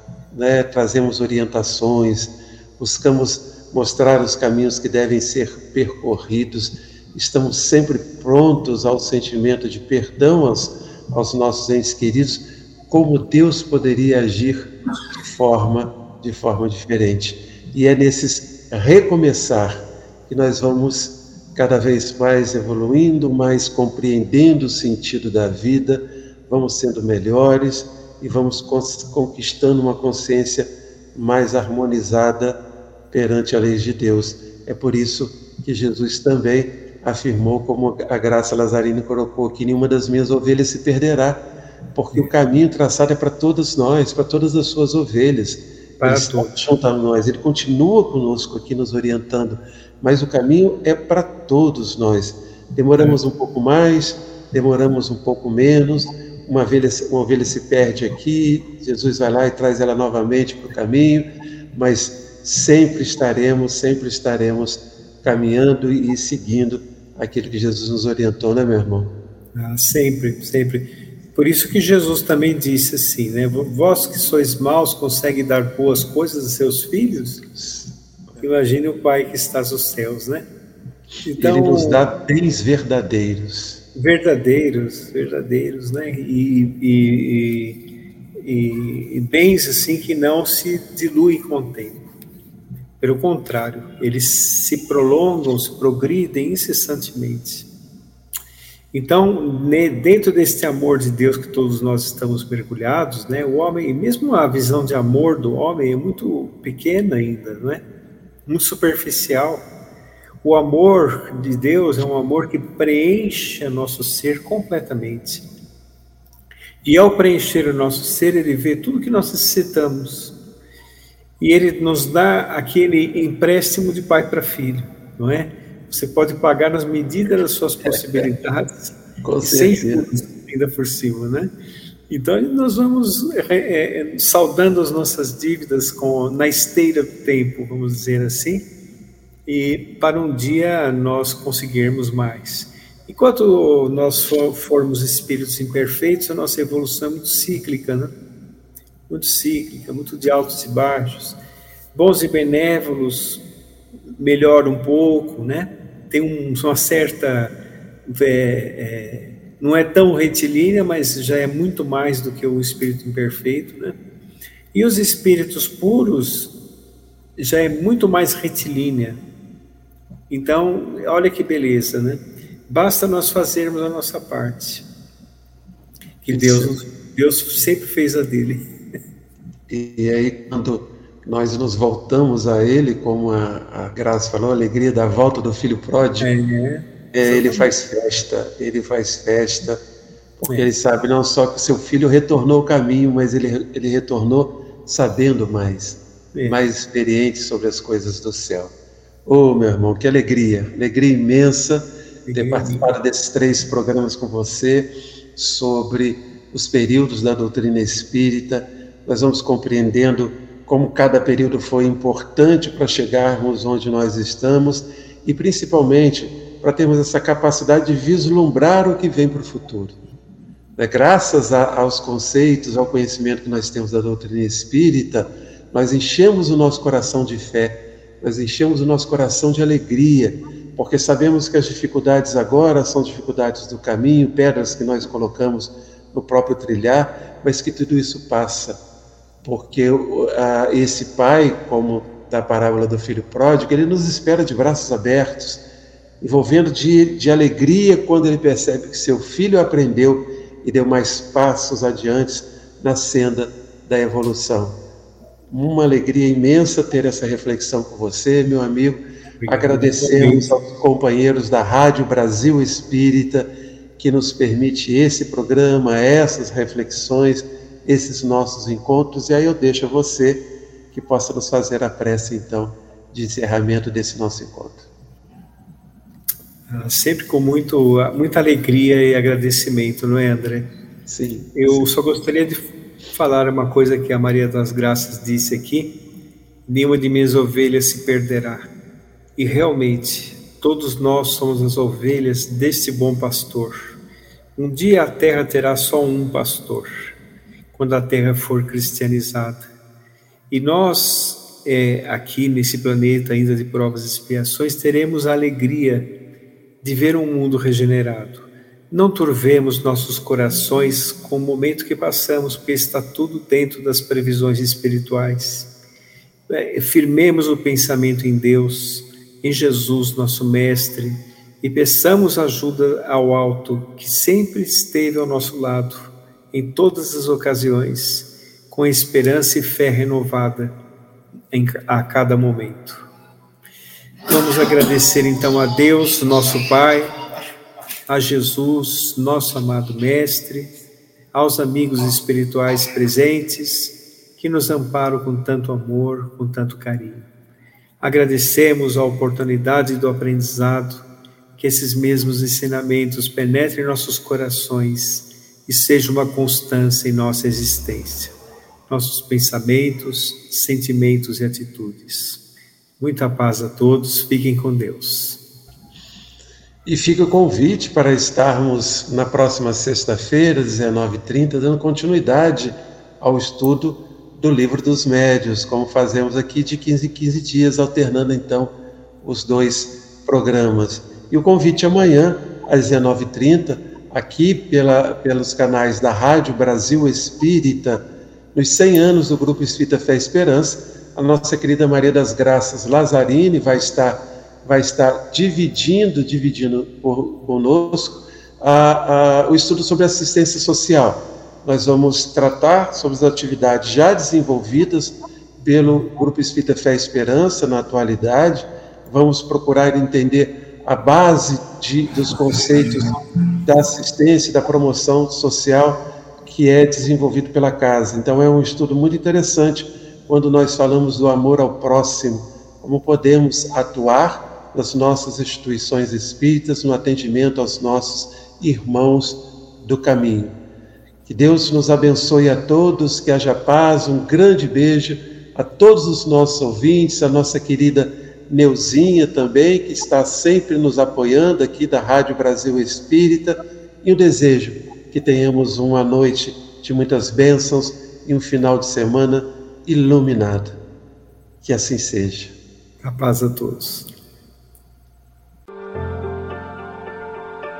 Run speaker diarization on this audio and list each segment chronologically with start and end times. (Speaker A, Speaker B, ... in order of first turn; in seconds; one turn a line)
Speaker A: 0.3-32.6
Speaker A: 33.1-69.1
Speaker B: 46.0-46.5
Speaker B: 69.5-77.4
Speaker A: 77.4-78.4
Speaker B: 78.4-80.5
Speaker B: 81.2-82.1
Speaker A: 81.4-83.8
Speaker B: 83.9-87.8
Speaker B: 88.4-92.0
Speaker B: 93.0-97.7
Speaker B: 98.9-107.8
Speaker B: 108.5-109.7
Speaker B: 110.4-115.5
Speaker B: 116.8-120.3
Speaker B: 121.4-131.5
Speaker A: 127.8-128.2
Speaker A: 129.2-130.1
Speaker B: 132.1-138.6
Speaker B: 139.5-148.1
Speaker B: 149.1-151.4
Speaker B: 151.9-153.4
Speaker B: 154.0-157.5
Speaker B: 158.1-164.0
Speaker B: 164.7-166.5
Speaker B: 167.4-169.2
Speaker B: 170.3-174.8
Speaker B: 176.2-178.7
Speaker A: 176.3-176.7
Speaker A: 179.7-186.3
Speaker B: 186.2-187.7
Speaker A: 187.1-189.8
Speaker A: 190.4-198.7
Speaker A: 199.2-219.9
Speaker B: 202.2-202.9
Speaker A: 220.8-238.8
Speaker A: 239.4-245.6
Speaker A: 246.2-254.8
Speaker A: 255.5-274.9
Speaker B: 259.4-260.5
Speaker B: 276.7-280.7
Speaker A: 281.1-281.9
Speaker B: 281.5-285.9
Speaker B: 286.7-288.7
Speaker B: 289.4-294.0
Speaker B: 294.6-297.1
Speaker B: 297.7-299.7
Speaker B: 300.5-306.1
Speaker B: 306.8-315.7
Speaker B: 316.5-330.8
Speaker B: 331.5-333.0
Speaker B: 334.3-337.1
Speaker B: 338.1-340.7
Speaker B: 341.3-347.3
Speaker B: 348.0-351.1
Speaker B: 351.6-358.3
Speaker B: 358.9-362.4
Speaker B: 363.0-365.4
Speaker A: 366.8-430.6
Speaker A: 431.3-450.8
Speaker A: 451.6-452.6
Speaker B: 453.0-454.1